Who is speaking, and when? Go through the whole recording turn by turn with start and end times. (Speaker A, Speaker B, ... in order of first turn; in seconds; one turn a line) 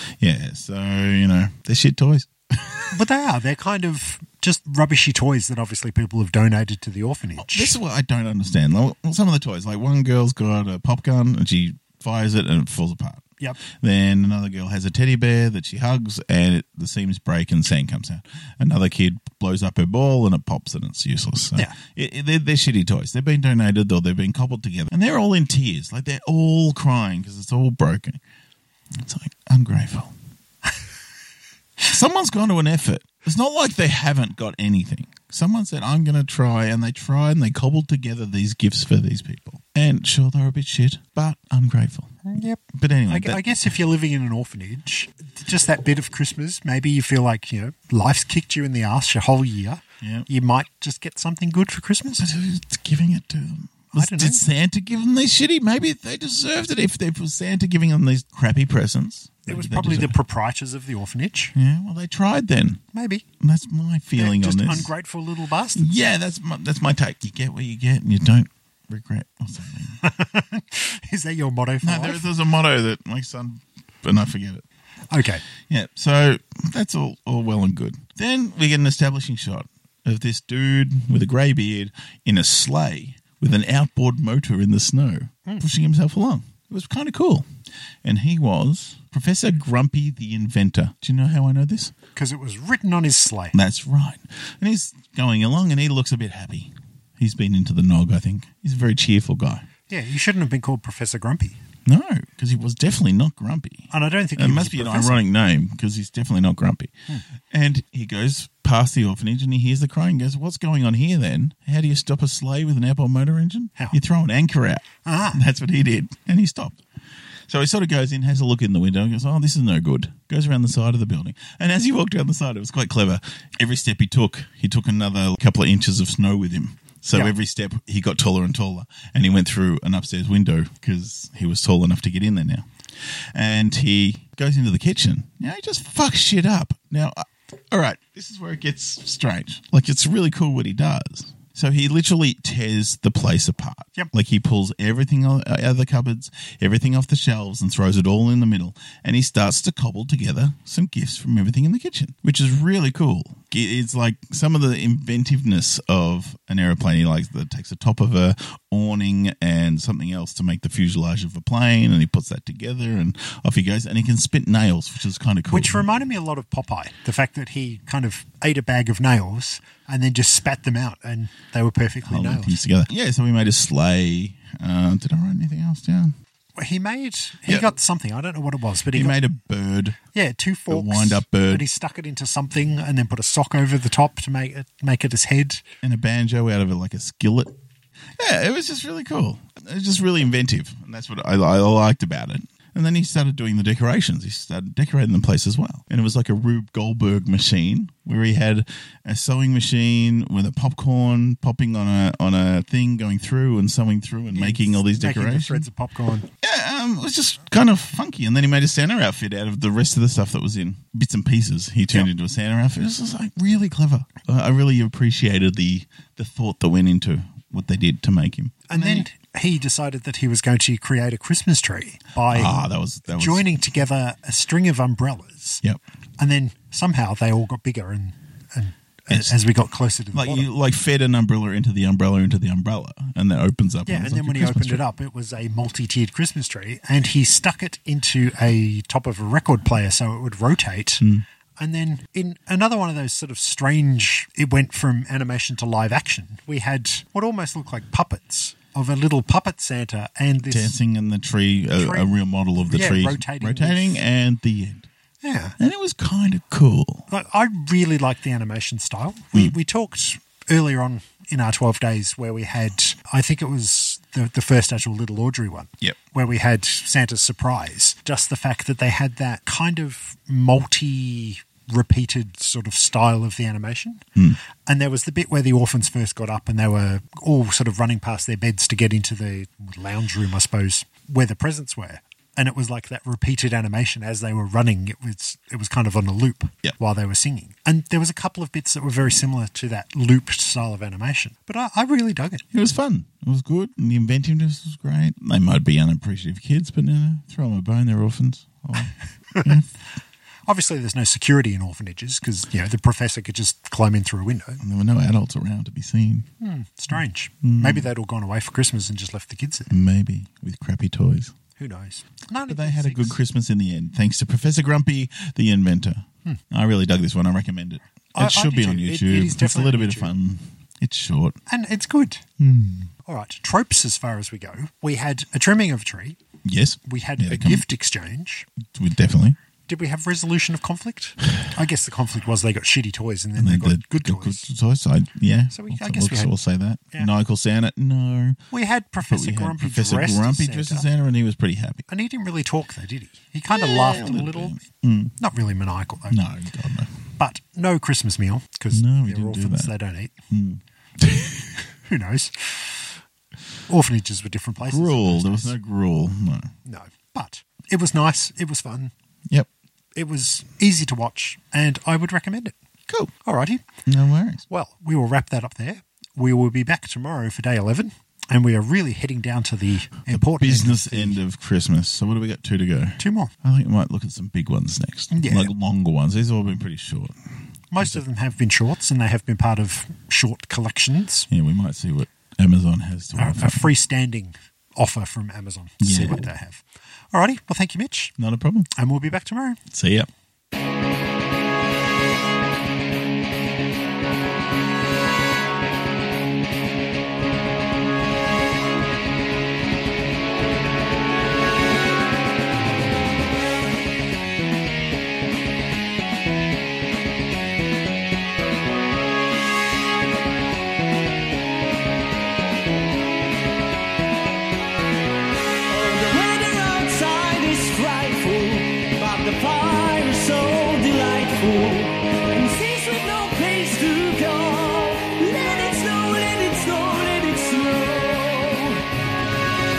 Speaker A: 0.2-3.0
Speaker B: 2.9-7.8
Speaker A: 7.4-13.2
Speaker A: 13.8-28.2
Speaker A: 28.9-30.1
Speaker A: 31.8-43.7
Speaker B: 42.2-52.3
Speaker A: 50.0-50.3
Speaker A: 52.2-60.2
Speaker B: 53.9-54.5
Speaker B: 59.5-61.5
Speaker A: 61.5-62.8
Speaker B: 62.9-63.2
Speaker A: 63.4-64.9
Speaker B: 64.2-65.9
Speaker A: 65.7-70.0
Speaker B: 70.0-72.3
Speaker A: 71.8-74.7
Speaker B: 75.1-75.4
Speaker A: 75.7-87.4
Speaker A: 88.0-91.9
Speaker B: 92.1-93.6
Speaker A: 93.5-99.7
Speaker B: 99.9-101.6
Speaker A: 101.9-106.9
Speaker B: 103.9-105.2
Speaker A: 107.5-116.8
Speaker B: 115.0-115.4
Speaker A: 117.5-132.7
Speaker A: 133.3-165.9
Speaker B: 165.5-172.6
Speaker A: 172.1-176.1
Speaker B: 176.6-179.2
Speaker A: 178.9-180.0
Speaker B: 180.1-185.6
Speaker A: 180.7-181.6
Speaker A: 185.8-187.6
Speaker A: 188.2-205.7
Speaker B: 204.3-206.3
Speaker A: 206.4-219.1
Speaker B: 218.7-225.6
Speaker A: 222.3-223.5
Speaker B: 226.2-230.5
Speaker A: 229.1-229.4
Speaker A: 230.1-234.8
Speaker B: 233.9-241.1
Speaker B: 241.6-250.8
Speaker A: 250.4-254.9
Speaker B: 251.8-252.1
Speaker B: 252.7-254.0
Speaker B: 255.2-255.6
Speaker A: 255.6-257.1
Speaker B: 257.1-274.1
Speaker B: 274.6-292.4
Speaker A: 292.5-299.7
Speaker B: 300.5-304.6
Speaker A: 304.6-306.3
Speaker B: 306.4-309.7
Speaker A: 307.4-307.9
Speaker A: 309.7-311.3
Speaker B: 311.6-313.2
Speaker A: 312.5-321.4
Speaker B: 318.1-320.1
Speaker B: 321.5-322.2
Speaker A: 322.4-322.9
Speaker B: 323.0-326.2
Speaker A: 326.4-327.6
Speaker B: 326.8-328.5
Speaker A: 328.7-329.4
Speaker B: 329.7-334.5
Speaker A: 333.4-338.4
Speaker B: 335.5-336.3
Speaker B: 338.5-340.9
Speaker A: 339.1-341.9
Speaker B: 341.9-344.6
Speaker A: 343.5-345.1
Speaker B: 345.2-346.2
Speaker A: 346.1-347.0
Speaker B: 347.2-350.1
Speaker A: 348.7-349.7
Speaker A: 350.3-351.4
Speaker B: 351.8-352.9
Speaker B: 353.7-355.6
Speaker A: 354.6-356.5
Speaker B: 356.6-358.9
Speaker B: 360.0-362.6
Speaker B: 363.2-363.6
Speaker A: 363.9-364.4
Speaker B: 364.5-371.2
Speaker A: 370.1-377.1
Speaker B: 373.0-373.3
Speaker B: 375.1-375.5
Speaker B: 377.7-381.3
Speaker A: 381.3-383.7
Speaker B: 383.2-388.1
Speaker A: 385.8-386.2
Speaker A: 388.2-388.7
Speaker B: 388.7-389.6
Speaker A: 389.7-390.1
Speaker C: 415.6-428.9